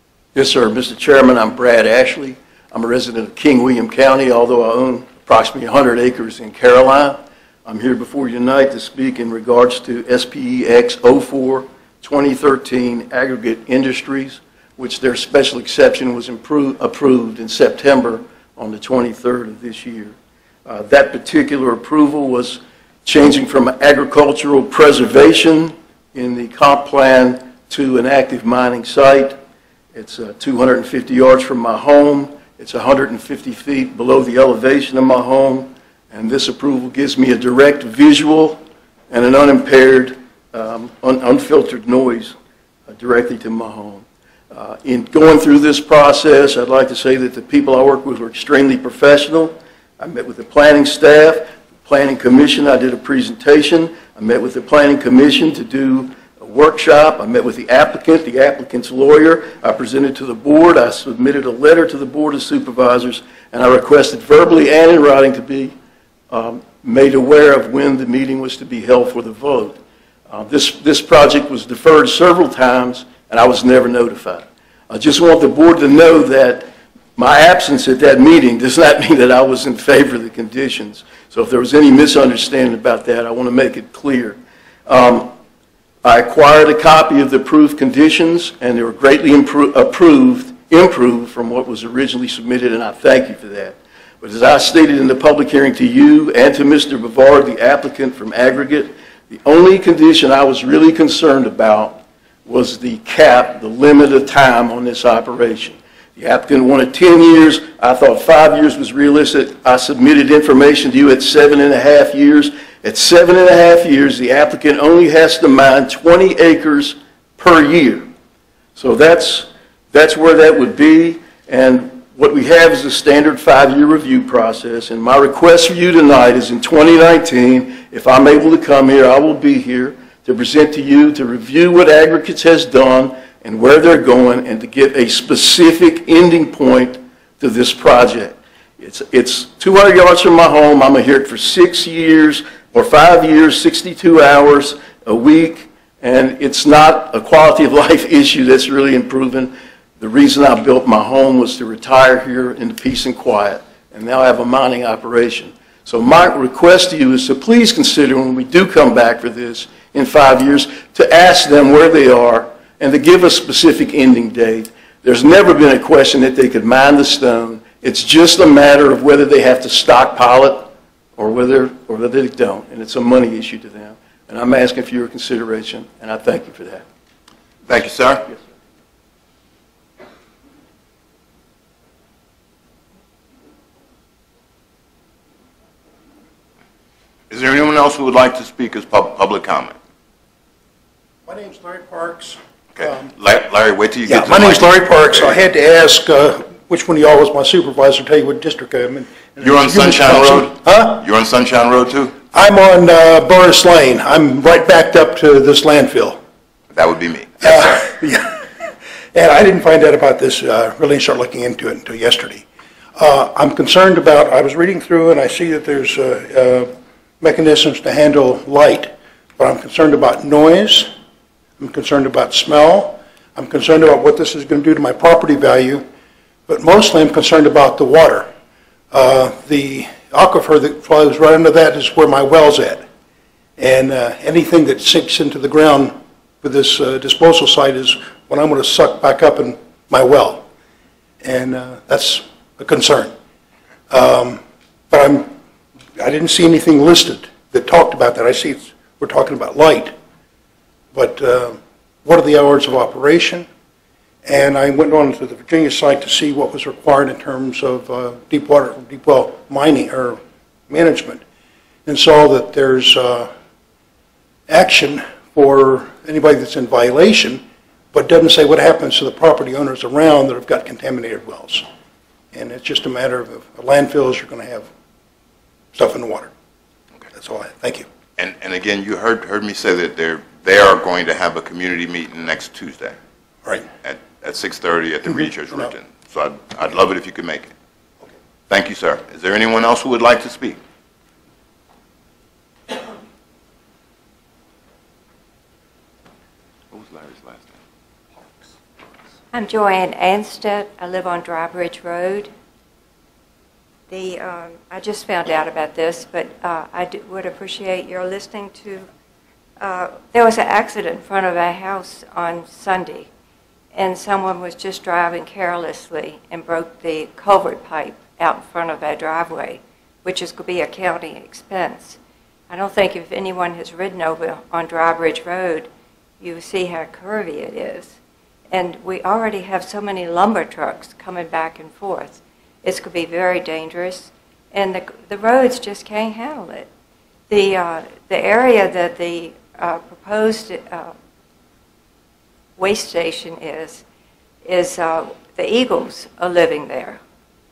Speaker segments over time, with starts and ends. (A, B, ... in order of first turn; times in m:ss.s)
0:00.4-0:20.2 A
0:20.7-0:29.4 A
0:29.9-0:42.4 A
0:42.9-1:05.7 A
1:06.3-1:09.8 A
1:10.3-1:25.3 A
1:26.0-1:58.1 A
1:58.8-2:56.8 A
2:57.7-2:58.3 B
3:07.3-3:09.8 B
3:11.3-3:13.1 C
3:12.8-3:15.4 B
3:14.1-3:21.0 C
3:19.4-3:22.2 B
3:22.3-3:26.2 C
3:26.7-3:27.9 B
3:27.4-3:28.5 C
3:29.1-3:32.4 C
3:33.0-3:40.9 C
3:41.6-3:45.9 C
3:46.5-3:48.3 C
3:48.9-3:52.8 C
3:53.6-4:00.4 C
4:01.2-4:03.1 C
4:03.9-4:05.3 C
4:06.0-4:10.0 C
4:10.9-4:13.5 C
4:14.3-4:21.2 C
4:21.9-4:23.3 C
4:24.5-4:31.6 C
4:32.3-4:34.7 C
4:35.7-4:36.3 C
4:37.1-4:37.9 C
4:38.2-4:43.0 B
4:43.8-4:47.5 B
4:45.1-4:45.7 C
4:48.5-4:50.6 B
4:56.7-4:57.6 B
4:59.3-5:02.3 D
5:03.9-5:08.9 D
5:09.6-5:13.1 D
5:13.7-5:22.0 D
5:22.5-5:25.7 D
5:26.2-5:27.9 D
5:28.5-5:36.7 D
5:37.3-5:40.9 D
5:42.6-5:43.8 D
5:44.4-5:47.0 D